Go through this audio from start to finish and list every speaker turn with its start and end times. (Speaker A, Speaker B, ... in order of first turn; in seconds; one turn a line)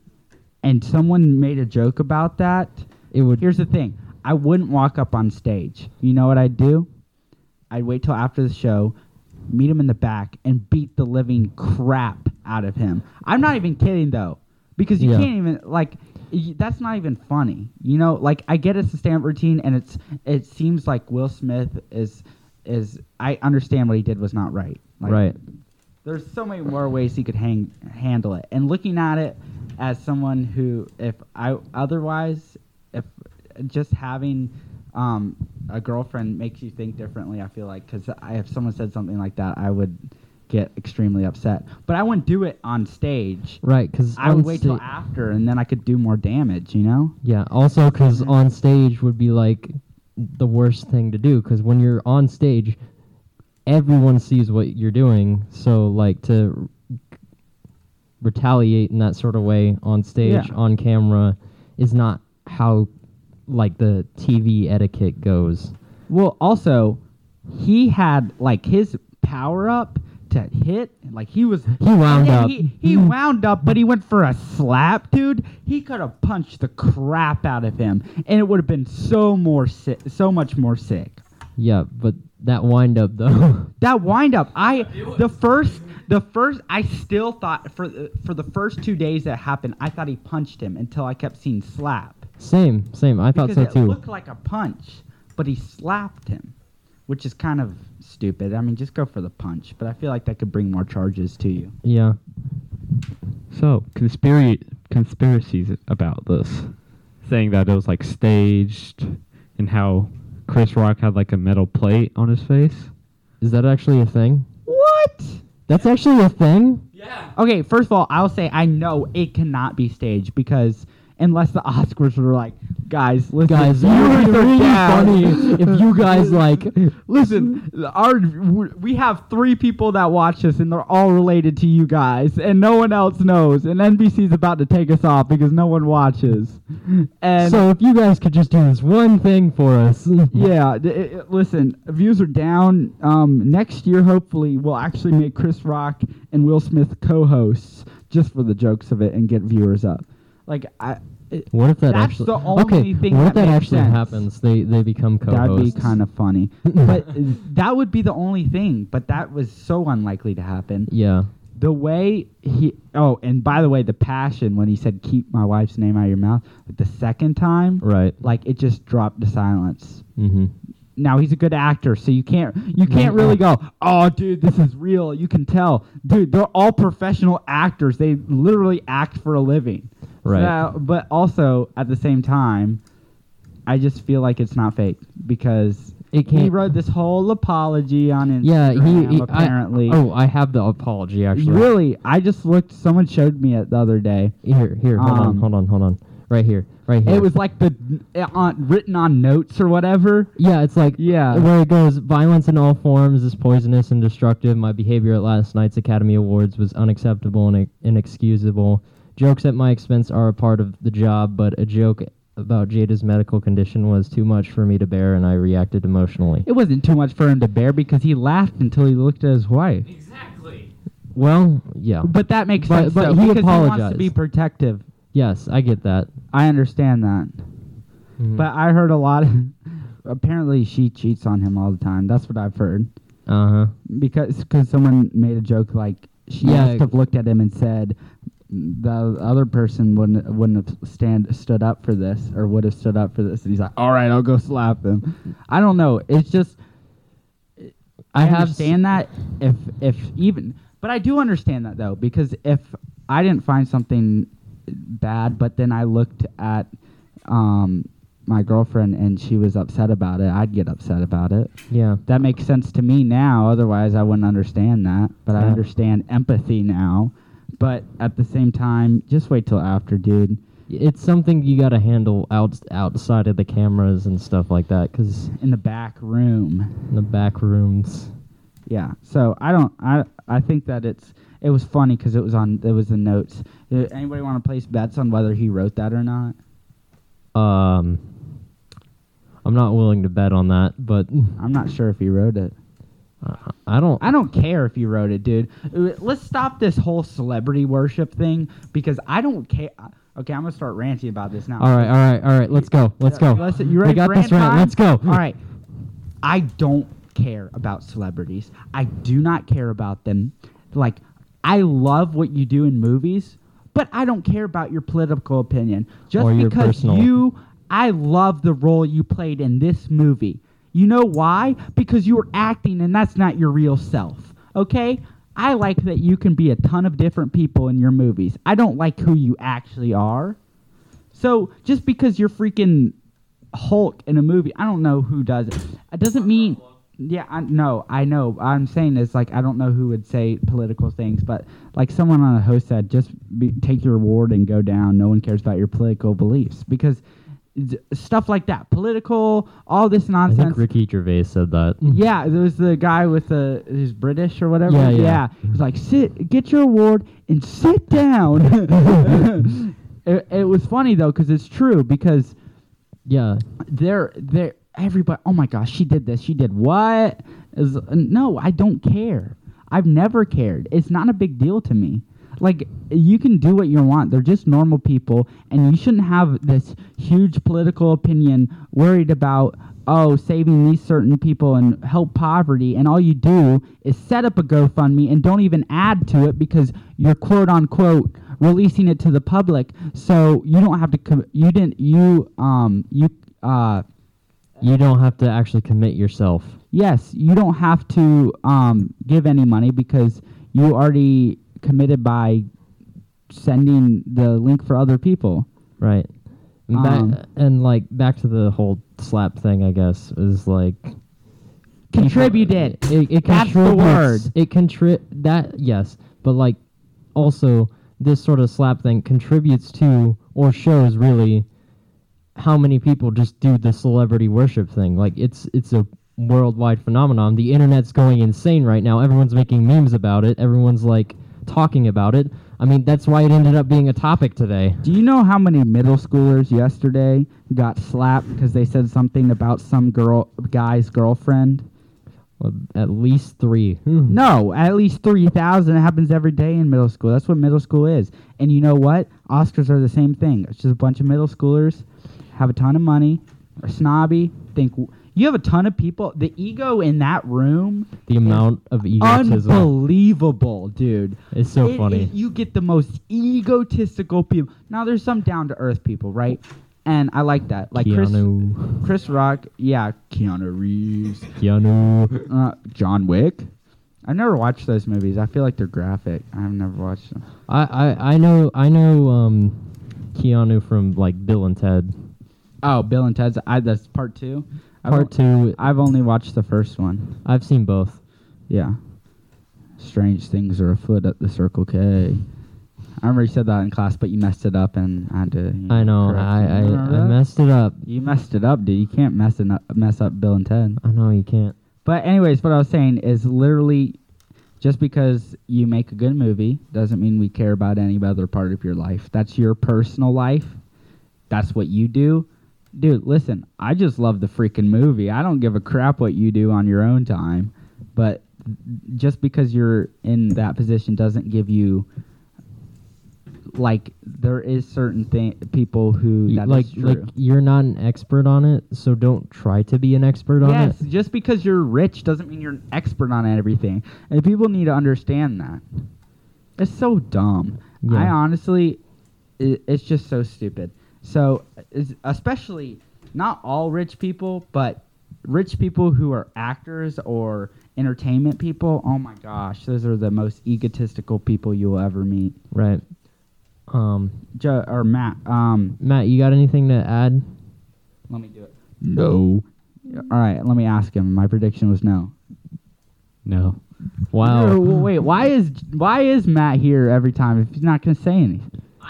Speaker A: 0.6-2.9
Speaker B: 3.1-3.5
Speaker A: 3.4-6.9
Speaker A: 7.7-8.9
Speaker A: 9.5-25.3
Speaker B: 15.0-15.3
Speaker B: 25.1-25.4
Speaker A: 26.1-43.6
Speaker B: 43.6-44.8
Speaker A: 44.2-47.1
Speaker B: 47.2-52.8
Speaker B: 53.7-56.8
Speaker B: 58.2-62.9
Speaker A: 60.2-60.5
Speaker B: 63.5-65.7
Speaker A: 66.1-67.0
Speaker A: 67.5-81.2
Speaker B: 71.8-73.1
Speaker B: 81.6-83.7
Speaker A: 83.8-92.2
Speaker B: 92.4-94.0
Speaker A: 93.3-96.5
Speaker A: 97.1-101.8
Speaker B: 101.8-102.2
Speaker C: 103.5-112.9
Speaker B: 113.4-114.5
Speaker A: 114.7-115.4
Speaker B: 115.7-116.9
Speaker A: 117.3-137.7
Speaker B: 123.5-126.8
Speaker B: 137.4-140.5
Speaker A: 140.3-154.2
Speaker B: 151.5-156.0
Speaker A: 155.3-160.9
Speaker B: 156.7-157.0
Speaker B: 160.9-161.3
Speaker A: 161.6-170.0
Speaker B: 167.8-168.2
Speaker B: 170.2-170.5
Speaker A: 171.0-182.8
Speaker B: 172.9-173.4
Speaker B: 180.2-180.6
Speaker A: 183.7-190.0
Speaker B: 186.1-186.6
Speaker B: 188.4-191.7
Speaker A: 191.3-194.3
Speaker B: 194.4-197.3
Speaker A: 195.0-195.5
Speaker A: 197.1-200.3
Speaker B: 200.4-216.5
Speaker A: 201.0-201.5
Speaker A: 216.4-219.9
Speaker C: 220.0-220.7
Speaker B: 221.2-224.1
Speaker A: 222.0-224.8
Speaker B: 225.1-226.1
Speaker A: 226.3-227.3
Speaker B: 228.2-228.5
Speaker A: 228.3-232.9
Speaker B: 233.3-233.7
Speaker A: 233.9-238.0
Speaker B: 236.4-236.9
Speaker A: 238.5-246.6
Speaker A: 247.6-256.7
Speaker B: 248.1-248.8
Speaker A: 257.3-261.5
Speaker B: 261.7-262.0
Speaker A: 262.0-270.4
Speaker B: 270.7-275.3
Speaker A: 275.4-276.7
Speaker B: 276.9-278.1
Speaker A: 278.7-286.4
Speaker B: 287.4-288.0
Speaker B: 289.4-291.4
Speaker A: 291.4-292.5
Speaker B: 293.2-294.1
Speaker A: 294.0-301.9
Speaker B: 301.6-305.2
Speaker A: 303.0-305.4
Speaker A: 306.2-330.4
Speaker B: 316.2-317.1
Speaker A: 331.1-332.9
Speaker A: 333.5-347.0
Speaker A: 347.6-350.6
Speaker B: 350.3-352.0
Speaker A: 351.9-362.4
Speaker B: 354.7-355.2
Speaker B: 363.1-363.4
Speaker A: 363.6-393.8
Speaker B: 394.6-396.6
Speaker A: 396.7-402.4
Speaker A: 403.3-405.5
Speaker B: 405.8-406.1
Speaker B: 406.7-410.9
Speaker A: 406.7-407.2
Speaker A: 411.9-414.3
Speaker B: 411.9-416.6
Speaker B: 417.1-421.5
Speaker B: 422.4-434.8
Speaker A: 434.8-441.7
Speaker B: 442.4-444.2
Speaker A: 444.1-458.5
Speaker B: 458.1-459.7
Speaker A: 459.0-471.4
Speaker B: 461.3-462.1
Speaker B: 467.7-468.9
Speaker B: 471.4-472.3
Speaker A: 472.3-473.5
Speaker A: 474.1-477.2
Speaker B: 477.5-481.9
Speaker A: 482.6-487.2
Speaker B: 484.9-485.6
Speaker B: 487.2-488.0
Speaker A: 488.5-488.8
Speaker A: 489.8-492.2
Speaker A: 493.0-497.2
Speaker B: 495.7-497.8
Speaker A: 497.9-500.8
Speaker B: 500.8-501.6
Speaker A: 501.9-504.0
Speaker A: 504.6-510.6
Speaker A: 511.3-521.9
Speaker A: 523.5-527.1
Speaker B: 526.3-530.8
Speaker A: 530.4-535.6
Speaker A: 536.6-538.8
Speaker B: 537.8-538.1
Speaker A: 539.4-552.4
Speaker B: 552.5-552.8
Speaker B: 553.7-554.2
Speaker A: 554.4-555.8
Speaker B: 555.8-557.2
Speaker A: 558.1-562.1
Speaker C: 559.0-559.4
Speaker C: 563.2-563.6
Speaker B: 564.1-564.7
Speaker A: 564.2-568.5